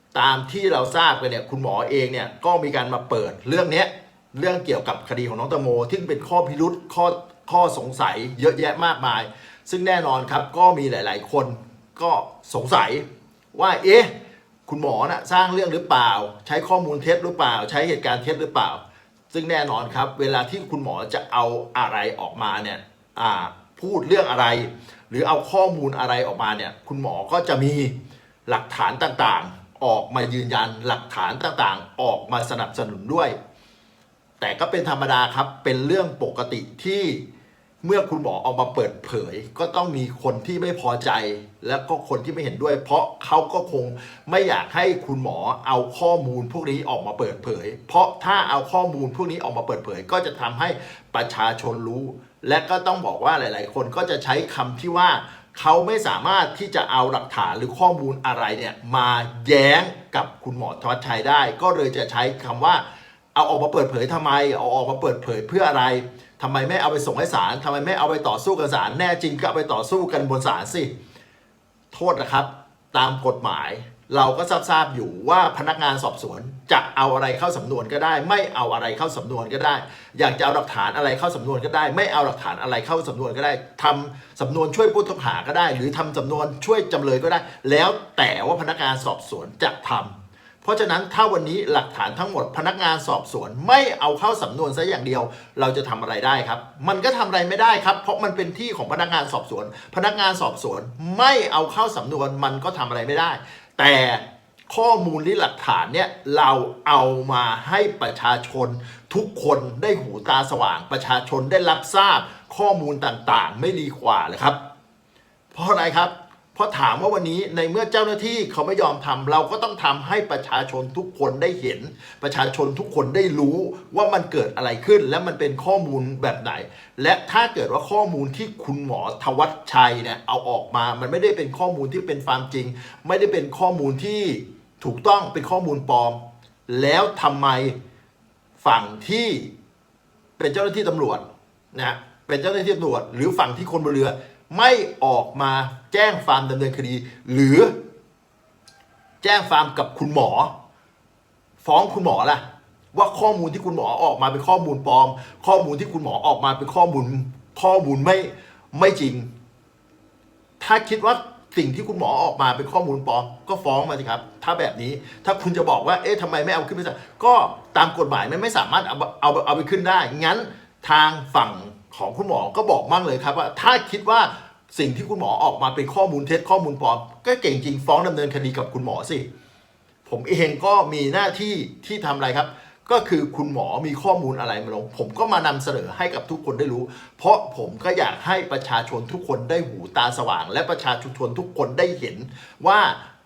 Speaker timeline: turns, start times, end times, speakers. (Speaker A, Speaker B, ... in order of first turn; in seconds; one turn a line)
Speaker A: 0.1-14.1
Speaker A: 14.7-27.9
Speaker A: 28.5-33.4
Speaker A: 34.4-37.2
Speaker A: 37.8-62.8
Speaker A: 63.3-70.9
Speaker A: 71.9-114.6
Speaker A: 115.5-137.8
Speaker A: 138.6-139.5
Speaker A: 140.4-147.8
Speaker A: 149.2-150.5
Speaker A: 151.6-152.4
Speaker A: 152.9-159.3
Speaker A: 160.6-179.2
Speaker A: 180.1-193.0